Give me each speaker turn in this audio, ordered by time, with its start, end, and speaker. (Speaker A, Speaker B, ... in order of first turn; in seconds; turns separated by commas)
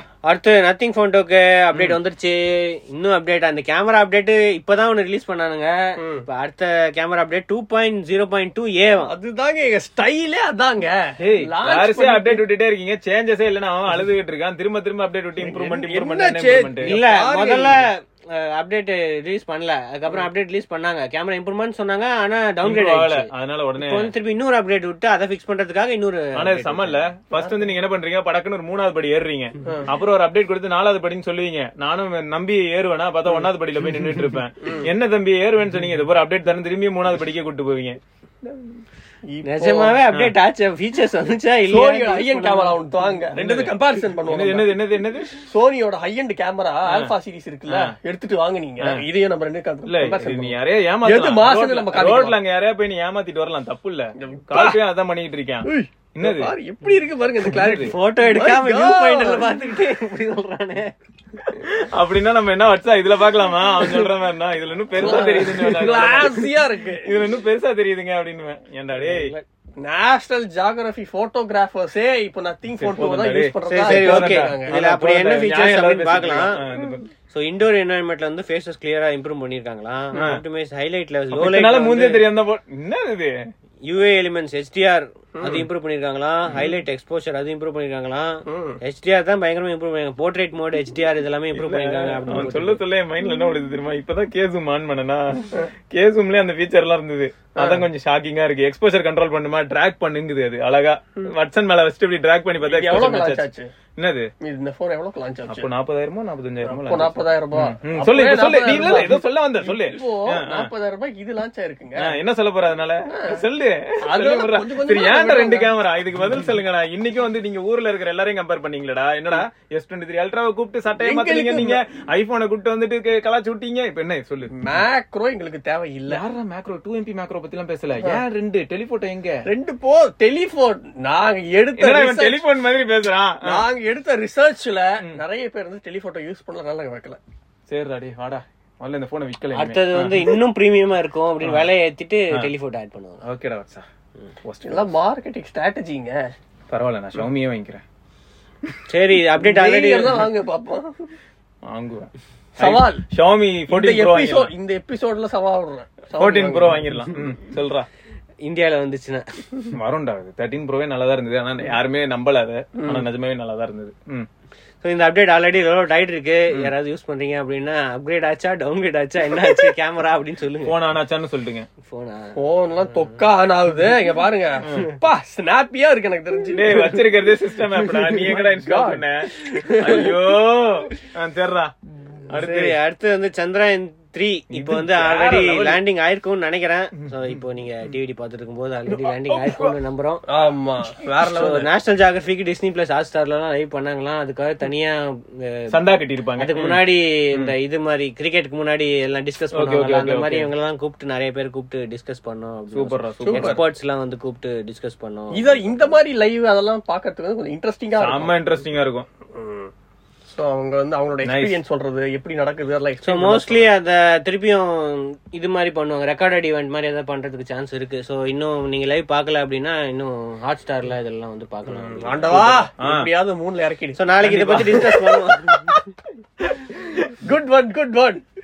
Speaker A: 0.2-9.1, Speaker B: 6.0-6.2, Speaker B: 9.1-12.4, Speaker C: 11.2-17.0, Speaker B: 15.4-17.8, Speaker A: 16.8-23.3, Speaker C: 22.6-24.1, Speaker A: 23.8-27.1, Speaker C: 26.4-38.6, Speaker B: 39.3-40.0, Speaker A: 39.4-42.8, Speaker B: 41.7-44.8, Speaker C: 43.3-45.4, Speaker B: 45.4-52.4, Speaker C: 46.9-47.1, Speaker C: 47.7-47.9, Speaker C: 49.9-56.5, Speaker B: 54.2-54.8, Speaker B: 55.6-59.5, Speaker C: 57.5-57.9, Speaker A: 57.8-60.9, Speaker C: 61.5-69.3, Speaker B: 65.0-67.2, Speaker A: 69.1-69.4, Speaker B: 69.8-76.5, Speaker C: 72.8-77.1, Speaker A: 73.7-76.6, Speaker A: 77.3-82.2, Speaker C: 80.1-80.4, Speaker C: 81.3-83.3, Speaker A: 83.8-92.8, Speaker C: 86.5-86.7, Speaker B: 88.5-88.8, Speaker C: 91.5-104.3, Speaker B: 97.6-97.8, Speaker B: 102.6-103.7, Speaker B: 104.4-105.7, Speaker C: 105.5-110.7, Speaker B: 106.7-112.2, Speaker C: 112.0-124.8, Speaker B: 113.1-113.4, Speaker B: 114.0-115.7, Speaker B: 121.0-121.8, Speaker B: 124.5-126.2, Speaker C: 126.1-129.4, Speaker B: 128.0-128.2, Speaker B: 129.4-132.4, Speaker C: 131.8-133.7, Speaker B: 133.4-137.2, Speaker C: 137.7-140.4, Speaker A: 139.5-143.2, Speaker C: 141.4-141.7, Speaker C: 143.2-143.8, Speaker C: 144.4-144.9, Speaker B: 144.6-146.2, Speaker C: 146.7-147.8, Speaker A: 148.9-150.2, Speaker B: 149.4-150.9, Speaker C: 151.7-154.5, Speaker B: 152.6-153.1, Speaker B: 153.7-156.9, Speaker C: 156.1-157.9, Speaker A: 158.4-159.4, Speaker C: 159.8-164.3, Speaker B: 162.8-163.0, Speaker A: 164.8-170.8, Speaker C: 170.6-171.7, Speaker A: 171.8-172.4, Speaker B: 172.3-177.0, Speaker C: 176.5-181.7, Speaker B: 177.8-180.1, Speaker A: 179.7-180.1, Speaker C: 182.3-182.8, Speaker A: 182.3-190.2, Speaker C: 184.5-185.8, Speaker C: 187.0-187.4, Speaker C: 188.9-189.8, Speaker B: 190.3-191.7, Speaker A: 191.3-195.8, Speaker C: 195.7-196.8, Speaker A: 196.4-205.9, Speaker C: 199.5-200.5, Speaker C: 202.7-203.6, Speaker B: 203.2-203.6, Speaker B: 205.3-208.3, Speaker C: 208.0-209.1, Speaker B: 209.3-209.7, Speaker B: 210.3-213.7, Speaker C: 211.2-211.6, Speaker A: 213.0-222.7, Speaker B: 221.7-225.7, Speaker C: 222.8-223.1, Speaker A: 223.9-225.9, Speaker C: 224.2-224.8, Speaker B: 227.1-228.2